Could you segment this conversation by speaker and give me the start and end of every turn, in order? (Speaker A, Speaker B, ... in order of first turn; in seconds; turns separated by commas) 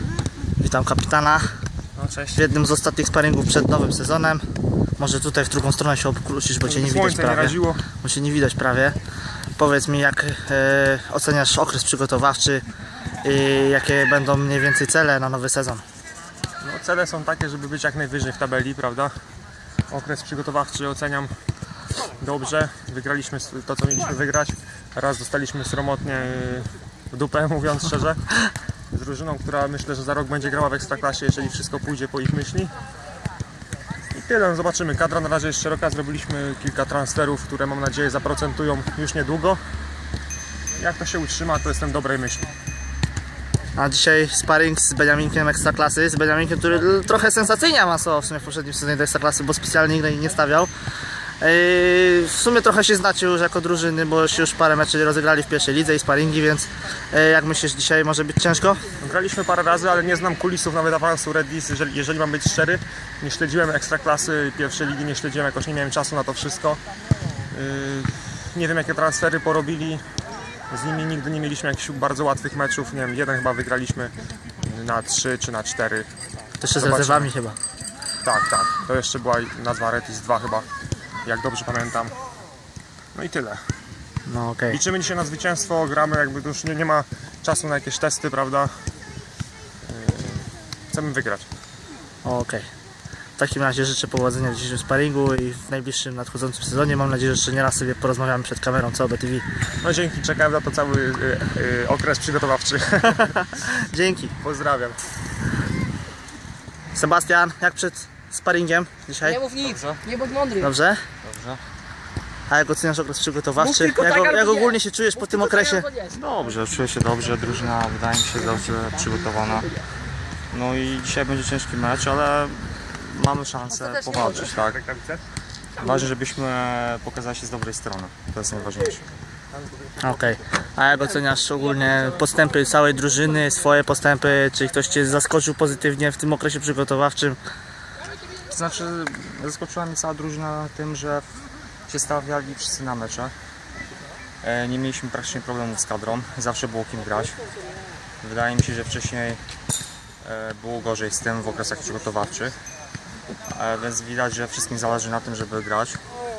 Speaker A: 0.6-1.5, Speaker B: 2.0-2.4, Speaker A: 2.4-4.4, Speaker A: 5.0-9.0, Speaker B: 6.7-7.9, Speaker A: 9.6-12.6, Speaker A: 13.2-15.8, Speaker B: 16.6-19.1, Speaker B: 19.9-21.3, Speaker B: 22.2-28.3, Speaker B: 28.9-32.7, Speaker B: 34.1-39.6, Speaker B: 40.8-42.5, Speaker A: 43.8-50.7, Speaker A: 51.4-58.8, Speaker B: 59.0-66.8, Speaker B: 67.5-70.0, Speaker B: 70.7-76.1, Speaker A: 76.6-77.6, Speaker B: 76.8-77.3, Speaker B: 78.2-80.7, Speaker B: 81.2-82.2, Speaker B: 83.2-83.6, Speaker A: 84.3-84.8, Speaker B: 84.7-88.8, Speaker B: 89.8-91.5, Speaker A: 92.2-92.7, Speaker A: 93.4-99.5, Speaker B: 99.8-103.4, Speaker A: 103.0-104.3, Speaker B: 104.4-105.0, Speaker A: 106.9-109.4, Speaker C: 109.5-110.6, Speaker D: 109.6-110.0, Speaker A: 110.6-111.0, Speaker D: 111.2-111.6, Speaker A: 112.5-115.9, Speaker C: 113.6-114.6, Speaker C: 115.3-115.8, Speaker D: 116.1-119.7, Speaker D: 120.5-124.8, Speaker B: 124.4-125.2, Speaker D: 125.8-129.1, Speaker A: 130.0-137.4, Speaker D: 138.5-141.2, Speaker D: 141.9-143.3, Speaker D: 144.4-147.4, Speaker D: 148.2-149.4, Speaker D: 150.2-152.6, Speaker D: 153.5-156.0